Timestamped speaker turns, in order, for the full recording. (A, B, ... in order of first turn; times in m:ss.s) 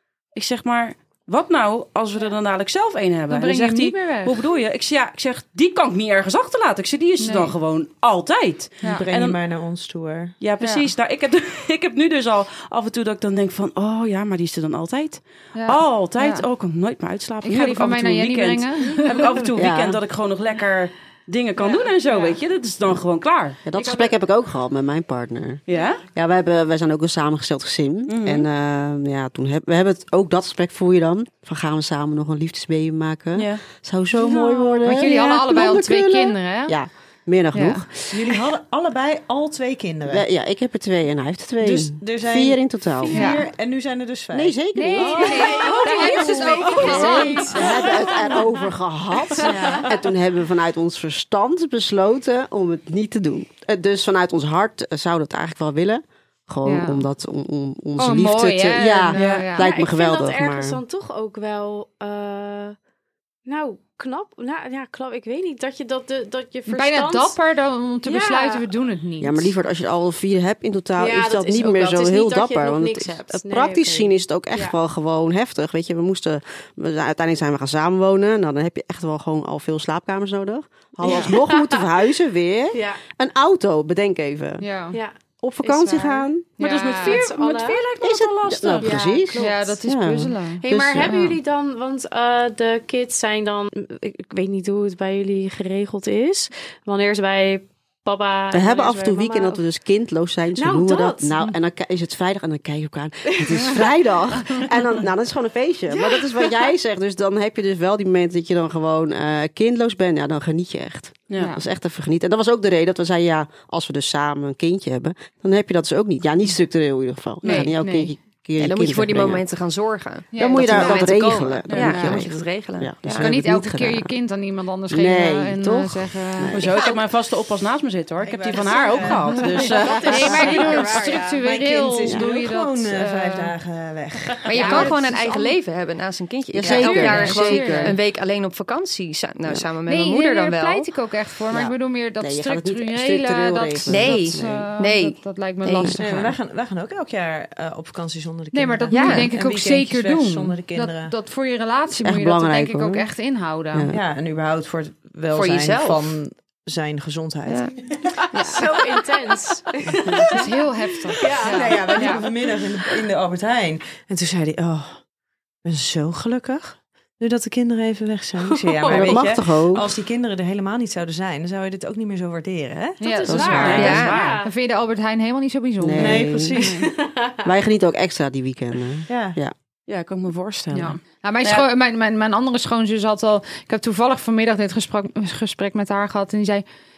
0:00.4-0:09.4 A
0:03.3-0:04.4 B
0:07.2-0:07.5 B
0:08.9-0:10.4 C
0:10.4-0:24.1 A
0:10.6-0:10.9 B
0:15.6-0:16.4 B
0:17.4-0:19.2 B
0:19.6-0:20.0 D
0:23.6-0:25.6 D
0:25.7-0:26.0 A
0:26.1-0:38.0 D
0:28.1-0:28.5 A
0:33.4-0:33.6 A
0:34.2-0:34.9 E
0:34.8-0:36.8 B
0:37.5-0:37.8 B
0:38.1-0:40.2 C
0:40.1-0:43.3 D
0:41.6-0:44.6 C
0:43.1-0:43.4 E
0:43.1-0:43.4 B
0:44.3-1:00.8 D
0:44.8-0:48.0 B
0:45.0-0:48.4 E
0:49.4-0:49.7 E
0:49.5-0:49.9 C
0:56.6-0:57.0 B
0:58.0-0:59.7 B
0:59.1-0:59.5 A
0:59.6-1:02.8 E
1:03.4-1:07.4 E
1:06.7-1:09.5 B
1:08.0-1:08.7 E
1:09.2-1:24.6 D
1:11.0-1:14.8 E
1:21.0-1:21.8 E
1:22.7-1:23.0 E
1:24.6-1:25.0 B
1:25.4-1:26.5 D
1:25.7-1:26.2 E
1:26.6-1:27.2 B
1:26.6-1:29.0 A
1:27.0-1:27.8 E
1:28.0-1:31.1 D
1:28.8-1:29.8 E
1:29.4-1:31.4 B
1:30.6-1:39.6 E
1:38.5-1:59.4 D
1:40.6-1:41.4 E
1:45.9-1:46.6 E
1:51.4-1:51.6 B
1:57.4-1:57.8 A
1:57.5-1:58.1 B
1:58.6-2:03.3 F
2:00.3-2:01.0 B
2:00.4-2:04.1 D
2:01.7-2:02.0 A
2:01.7-2:02.2 B
2:03.2-2:06.7 B
2:04.9-2:06.9 D
2:06.5-2:10.2 A
2:08.2-2:09.7 C
2:09.5-2:10.0 D
2:09.7-2:11.4 E
2:10.0-2:13.5 B
2:10.2-2:15.1 C
2:14.4-2:20.9 F
2:14.5-2:15.4 B
2:16.5-2:18.0 D
2:16.6-2:18.0 B
2:19.9-2:26.4 B
2:21.5-2:24.7 D
2:23.9-2:26.0 F
2:26.0-2:31.1 C
2:28.5-2:33.9 B
2:28.9-2:29.3 F
2:32.0-2:33.1 D
2:33.7-2:34.0 D
2:33.9-2:38.1 C
2:35.3-2:36.1 F
2:37.5-2:37.7 F
2:38.4-2:40.5 E
2:40.3-2:42.2 B
2:41.1-2:42.4 E
2:41.4-2:45.0 C
2:45.6-2:53.9 C
2:48.4-2:49.3 E
2:48.9-2:49.9 D
2:53.0-2:56.9 B
2:53.0-2:54.5 E
2:53.3-2:53.9 D
2:53.5-2:54.4 A
2:53.7-2:54.2 F
2:55.8-2:56.6 D
2:56.0-2:56.8 C
2:56.7-2:57.5 E
2:57.4-2:59.5 D
2:59.1-2:59.4 C
2:59.9-3:01.7 A
3:00.7-3:06.6 B